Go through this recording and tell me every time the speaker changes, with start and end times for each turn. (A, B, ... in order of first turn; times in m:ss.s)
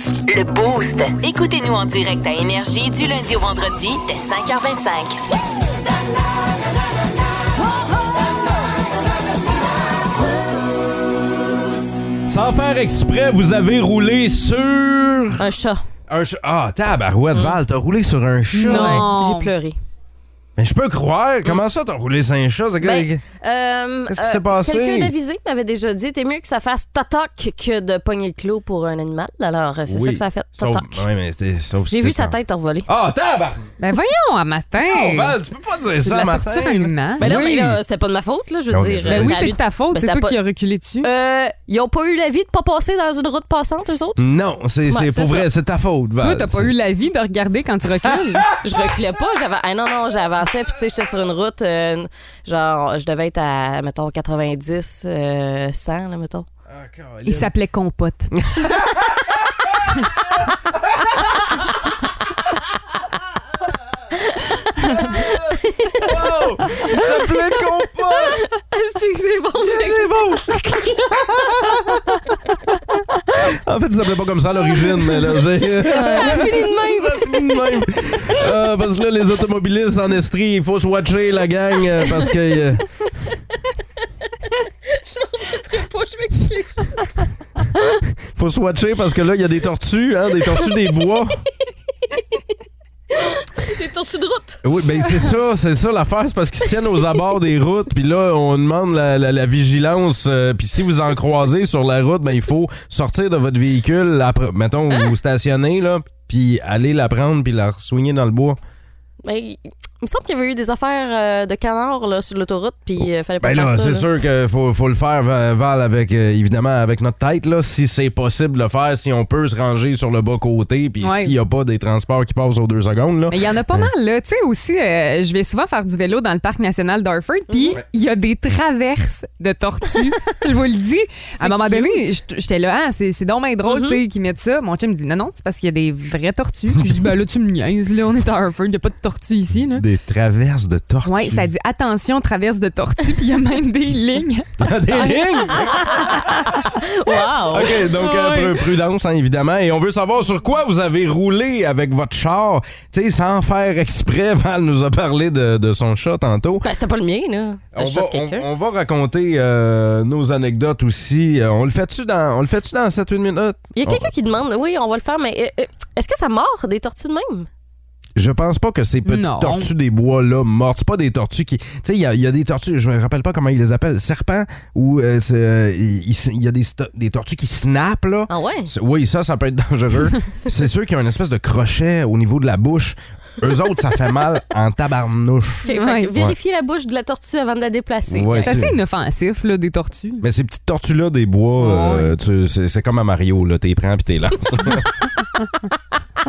0:00.3-0:05.2 A
0:12.3-0:15.4 B
0:15.4-0:15.8 C
0:16.1-0:19.1 B
0:17.3-0:17.6 C
0:18.5-0:19.5 D
0:18.6-0:19.8 C
0:20.6-0:23.2 B
0:22.8-0:31.0 C
0:24.1-0:25.1 B
0:29.9-0:32.4 B
0:31.9-0:32.9 C
0:32.9-0:33.7 B
0:33.8-0:35.4 D
0:34.9-0:37.8 B
0:36.0-0:37.2 D
0:37.2-0:40.4 C
0:38.7-0:39.6 B
0:39.1-0:41.1 D
0:41.0-0:44.2 C
0:44.2-0:46.7 B
0:44.9-0:45.5 C
0:46.2-0:48.6 D
0:48.0-0:48.4 B
0:48.6-0:56.5 C
0:56.7-0:57.5 B
0:57.2-0:58.4 D
0:58.4-0:59.8 B
1:05.1-1:08.4 B
1:05.1-1:11.7 C
1:09.6-1:12.2 B
1:13.4-1:22.8 B
1:14.7-1:18.5 C
1:22.0-1:22.3 C
1:24.9-1:27.3 C
1:28.3-1:31.4 B
1:30.4-1:30.7 C
1:33.2-1:35.4 C
1:34.6-1:48.6 B
1:36.6-1:37.4 C
1:49.2-1:54.1 C
1:53.4-2:03.9 B
2:01.0-2:01.3 D
2:03.3-2:19.8 D
2:07.5-2:07.8 C
2:11.4-2:12.1 C
2:13.7-2:14.0 C
2:19.6-2:21.5 B
2:21.0-2:25.8 D
2:24.6-2:26.2 B
2:25.8-2:26.2 C
2:26.8-2:27.8 C
2:27.5-2:36.7 B
2:27.9-2:28.6 D
2:36.6-2:38.5 C
2:37.7-2:44.1 B
2:43.8-2:47.5 C
2:48.2-3:05.6 B
2:49.1-2:49.7 D
2:58.3-2:58.7 C
3:05.6-3:08.6 C
3:05.7-3:06.1 D
3:08.1-3:08.8 B
3:08.4-3:10.2 D
3:10.2-3:14.9 B
3:11.6-3:12.1 D